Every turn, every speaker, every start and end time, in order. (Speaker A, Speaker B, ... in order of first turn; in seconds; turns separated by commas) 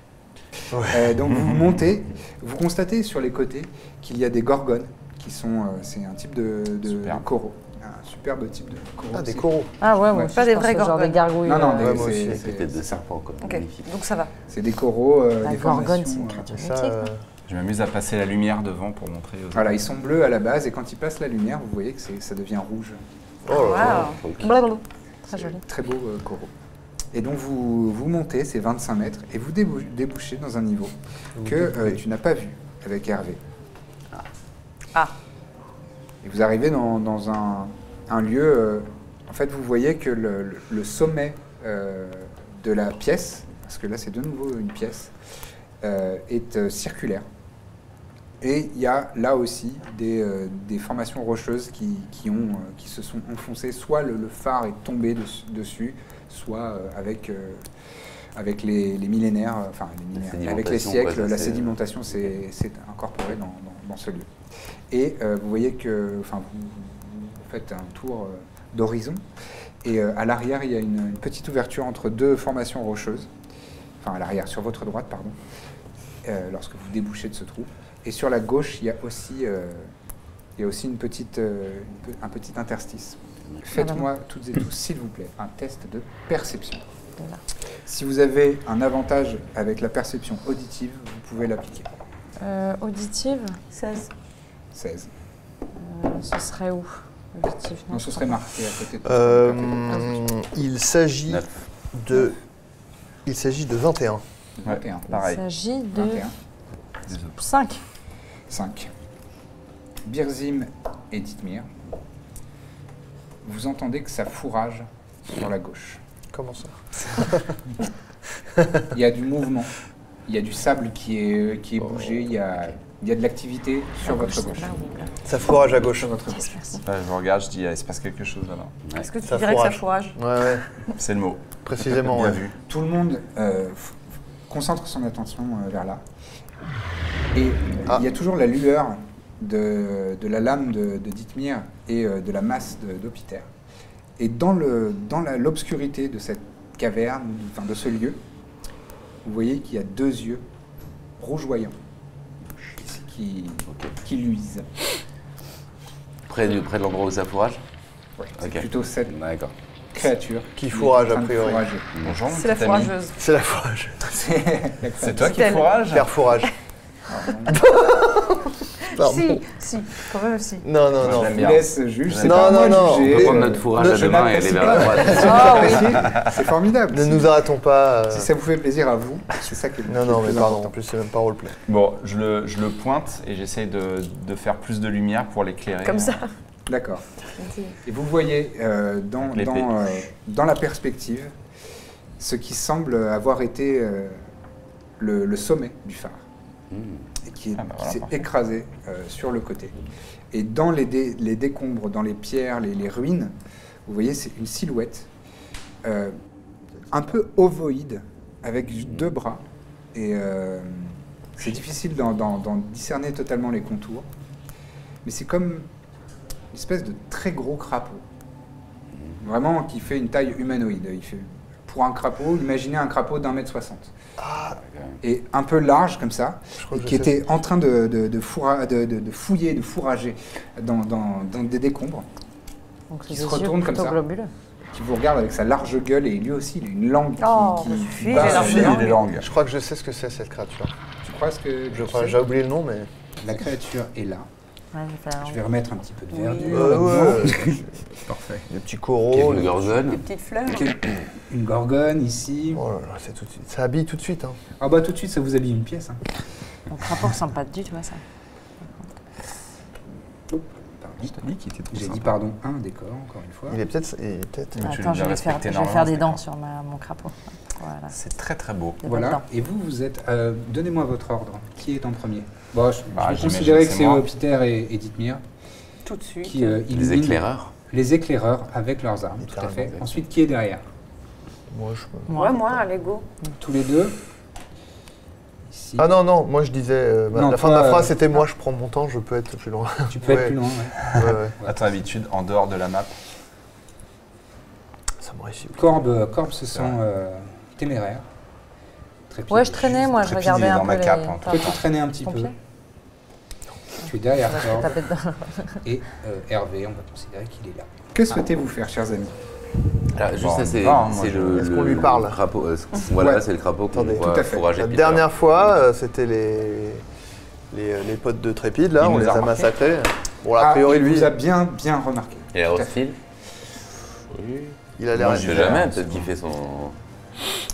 Speaker A: 0.7-1.2, Speaker B: 0.8-9.5, Speaker C: 6.9-7.3, Speaker A: 9.1-9.7, Speaker D: 9.8-12.0, Speaker B: 10.1-10.4, Speaker E: 10.3-11.2, Speaker B: 11.4-13.0, Speaker A: 11.8-12.4, Speaker F: 12.2-13.9, Speaker E: 13.4-14.3, Speaker B: 14.5-16.5, Speaker D: 15.4-17.1, Speaker A: 16.5-17.2, Speaker C: 17.5-19.8, Speaker B: 19.5-23.0, Speaker A: 23.4-24.2, Speaker F: 23.5-24.5, Speaker E: 23.5-24.8, Speaker B: 25.3-26.5, Speaker B: 27.1-33.4, Speaker A: 31.4-32.0, Speaker B: 36.2-45.1, Speaker B: 45.8-47.3, Speaker B: 48.4-57.6, Speaker B: 58.4-64.3, Speaker F: 60.2-62.3, Speaker B: 64.9-69.2, Speaker B: 69.8-73.3, Speaker B: 74.0-75.4, Speaker B: 76.2-79.9, Speaker B: 80.6-86.8, Speaker D: 83.7-84.1, Speaker B: 87.8-91.9, Speaker D: 92.4-93.6, Speaker E: 93.7-94.1, Speaker B: 94.7-95.1, Speaker D: 95.8-98.5, Speaker B: 97.9-100.2, Speaker A: 99.0-102.4, Speaker F: 101.3-101.6, Speaker A: 103.2-104.2, Speaker C: 104.6-105.4, Speaker B: 104.7-105.1, Speaker D: 105.1-106.3, Speaker B: 106.0-106.3, Speaker C: 107.1-107.4, Speaker D: 107.4-107.8, Speaker B: 108.5-108.9, Speaker B: 110.0-111.7, Speaker B: 113.5-116.0, Speaker A: 116.3-117.5, Speaker A: 118.5-118.9, Speaker B: 118.9-119.7, Speaker B: 120.3-124.8, Speaker F: 121.9-122.7, Speaker E: 124.0-125.2, Speaker A: 125.3-126.4, Speaker B: 125.6-126.5, Speaker D: 126.3-126.8, Speaker C: 126.8-128.7, Speaker E: 128.9-130.2, Speaker A: 129.2-130.7, Speaker C: 130.9-132.6, Speaker A: 131.7-132.4, Speaker B: 132.7-136.0, Speaker B: 137.3-143.5, Speaker B: 144.2-148.2, Speaker B: 149.2-150.4, Speaker B: 151.2-151.8, Speaker B: 152.9-154.7, Speaker F: 153.7-153.9, Speaker F: 156.3-157.6, Speaker B: 158.2-159.1, Speaker F: 158.4-159.5, Speaker B: 159.9-161.9, Speaker A: 160.6-161.7, Speaker C: 162.0-162.9, Speaker E: 162.3-163.2, Speaker A: 163.2-164.1, Speaker B: 164.0-165.7, Speaker C: 165.0-166.1, Speaker E: 165.2-165.8, Speaker A: 165.9-166.5, Speaker B: 167.1-167.6, Speaker A: 167.4-169.4, Speaker E: 168.9-170.7, Speaker A: 170.6-171.4, Speaker C: 171.0-172.6, Speaker B: 171.0-177.3, Speaker A: 172.2-175.9, Speaker F: 172.8-175.8, Speaker D: 175.2-176.0, Speaker C: 176.1-176.4, Speaker A: 176.9-178.3, Speaker B: 178.1-180.7, Speaker A: 179.9-181.6, Speaker C: 181.7-186.2, Speaker E: 185.8-186.3, Speaker B: 186.7-187.0, Speaker E: 187.4-187.8, Speaker B: 187.8-191.3, Speaker C: 189.2-189.9, Speaker B: 192.2-194.2, Speaker B: 195.0-196.2, Speaker F: 196.7-197.1, Speaker B: 197.2-199.7, Speaker C: 197.6-198.3, Speaker B: 200.3-203.4, Speaker B: 203.9-205.1, Speaker B: 205.8-206.2, Speaker B: 206.9-209.4, Speaker B: 209.9-214.1, Speaker B: 215.1-215.7, Speaker B: 216.5-218.0, Speaker B: 219.2-223.9, Speaker A: 224.2-224.6, Speaker F: 224.6-225.0, Speaker B: 225.0-232.1, Speaker A: 226.6-227.2, Speaker D: 232.9-234.3, Speaker B: 233.1-234.0, Speaker B: 234.7-238.9, Speaker E: 237.2-239.1, Speaker C: 238.1-239.3, Speaker A: 238.1-240.7, Speaker B: 241.0-242.2, Speaker A: 241.7-242.9, Speaker B: 243.2-244.3, Speaker D: 244.7-245.4, Speaker B: 245.2-247.6, Speaker E: 246.1-246.9, Speaker A: 246.4-247.8, Speaker C: 248.0-248.4, Speaker A: 248.5-249.8, Speaker F: 249.1-250.1, Speaker E: 249.9-250.7, Speaker B: 250.5-252.6, Speaker A: 252.5-254.4, Speaker B: 254.6-256.0, Speaker D: 256.7-258.0, Speaker B: 260.3-261.2, Speaker C: 261.0-262.2, Speaker B: 261.7-263.6, Speaker A: 263.5-264.8, Speaker C: 264.6-266.2, Speaker D: 264.6-267.9, Speaker C: 267.9-268.8, Speaker D: 268.8-269.2, Speaker B: 268.9-275.2, Speaker C: 272.9-274.1, Speaker E: 275.9-276.5, Speaker B: 276.2-280.6, Speaker F: 276.7-277.5, Speaker A: 279.2-279.7, Speaker A: 281.5-282.4, Speaker D: 282.1-282.4, Speaker E: 282.1-283.1, Speaker B: 283.4-284.0, Speaker B: 285.5-285.9, Speaker A: 285.8-291.3, Speaker B: 287.1-288.0, Speaker B: 289.9-291.6, Speaker C: 290.9-293.0, Speaker A: 295.0-295.8, Speaker B: 295.6-298.1, Speaker C: 296.5-296.8, Speaker B: 299.1-300.0, Speaker D: 299.3-302.3, Speaker C: 299.9-301.6, Speaker B: 301.3-302.3, Speaker B: 303.8-304.8, Speaker D: 304.2-305.6, Speaker B: 305.6-309.2, Speaker F: 309.9-315.6, Speaker C: 310.1-311.7, Speaker A: 311.3-312.2, Speaker B: 312.9-313.2, Speaker A: 313.7-316.9, Speaker B: 314.0-314.4, Speaker A: 317.5-321.2, Speaker C: 318.8-319.4, Speaker B: 320.4-322.8, Speaker F: 322.3-323.0, Speaker F: 324.1-326.8, Speaker A: 324.8-326.0, Speaker C: 325.0-326.1